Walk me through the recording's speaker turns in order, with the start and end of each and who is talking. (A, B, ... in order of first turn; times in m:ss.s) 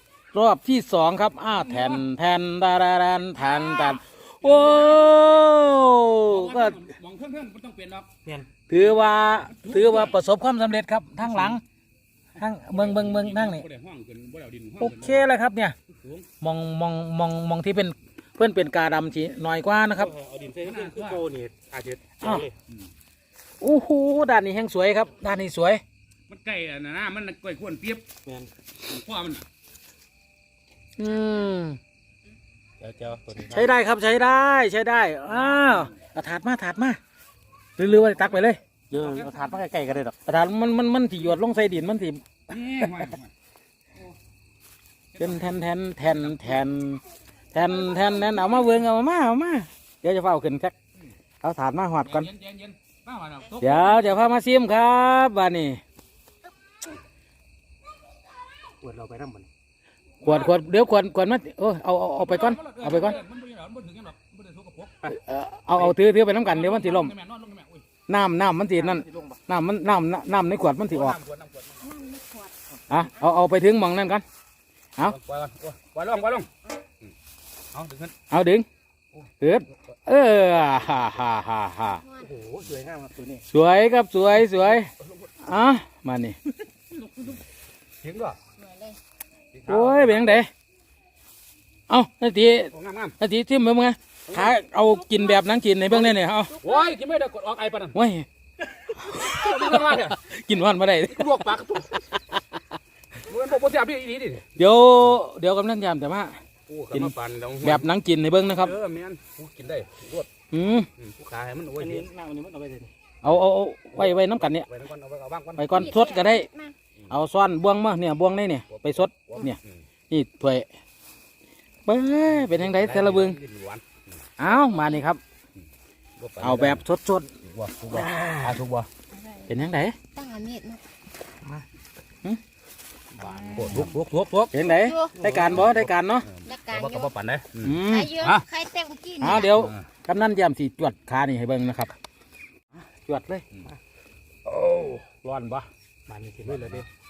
0:00.3-0:06.8 A
0:01.6-0:02.0 B
0:04.4-0:05.1 B
0:06.3-0:08.1 B
0:08.7-0:11.6 A
0:09.5-0:10.2 B
0:12.4-0:13.7 A
0:12.7-0:15.3 B
0:14.8-0:15.8 A
0:15.9-0:16.3 B
0:16.4-0:20.1 A
0:20.0-0:22.5 C
0:20.6-0:21.3 B
0:22.2-0:22.5 A
0:23.6-0:25.8 A
0:26.3-0:28.1 B
0:28.3-0:28.5 C
0:28.8-0:29.5 B
0:31.0-0:31.8 A
0:32.8-0:33.7 B
0:33.5-0:37.0 A
0:35.4-0:35.9 B
0:37.8-0:38.6 A
0:38.9-0:39.7 B
0:38.9-0:40.1 C
0:40.2-0:42.2 A
0:42.5-0:43.3 B
0:45.1-0:46.7 B
0:45.2-0:50.7 A
0:51.4-0:52.3 A
0:52.1-0:54.1 B
0:53.6-0:55.8 A
0:58.8-0:59.5 C
1:00.2-1:03.2 A
1:00.2-1:00.6 B
1:02.2-1:05.1 B
1:05.0-1:07.1 A
1:05.7-1:07.9 B
1:08.1-1:11.2 A
1:10.9-1:12.0 B
1:11.8-1:12.5 D
1:12.9-1:14.2 A
1:15.1-1:16.5 B
1:17.7-1:18.2 B
1:18.3-1:18.7 A
1:19.4-1:22.0 A
1:22.1-1:23.4 C
1:23.4-1:24.9 A
1:25.4-1:26.4 A
1:27.1-1:27.4 B
1:28.0-1:28.4 B
1:28.6-1:29.0 D
1:29.5-1:30.4 B
1:29.7-1:30.5 A
1:31.9-1:36.6 A
1:32.7-1:33.2 B
1:34.3-1:34.6 B
1:35.9-1:38.0 B
1:37.9-1:38.3 A
1:38.9-1:41.5 A
1:39.1-1:40.2 B
1:41.1-1:42.1 B
1:42.1-1:42.6 A
1:43.3-1:44.5 B
1:44.6-1:46.4 A
1:46.7-1:47.9 B
1:46.9-1:48.7 A
1:48.5-1:50.3 B
1:50.5-1:50.9 A
1:51.0-1:52.1 B
1:51.8-1:52.9 C
1:53.2-1:54.7 A
1:54.0-1:56.0 B
1:55.6-1:56.5 A
1:56.0-1:56.7 D
1:57.1-2:00.7 A
1:58.7-1:59.8 B
2:01.9-2:03.4 A
2:02.3-2:04.2 B
2:04.4-2:05.2 A
2:06.2-2:06.8 B
2:06.4-2:07.3 A
2:07.4-2:08.9 B
2:07.9-2:08.6 A
2:09.5-2:10.0 A
2:10.2-2:10.8 D
2:13.2-2:14.6 B
2:14.5-2:16.3 A
2:14.8-2:15.2 D
2:15.2-2:15.6 C
2:15.5-2:18.5 B
2:16.5-2:17.0 D
2:17.6-2:18.2 A
2:17.9-2:19.5 D
2:19.2-2:21.9 A
2:19.5-2:19.9 B
2:22.8-2:23.4 A
2:24.5-2:25.7 A
2:26.1-2:26.9 C
2:26.4-2:26.8 B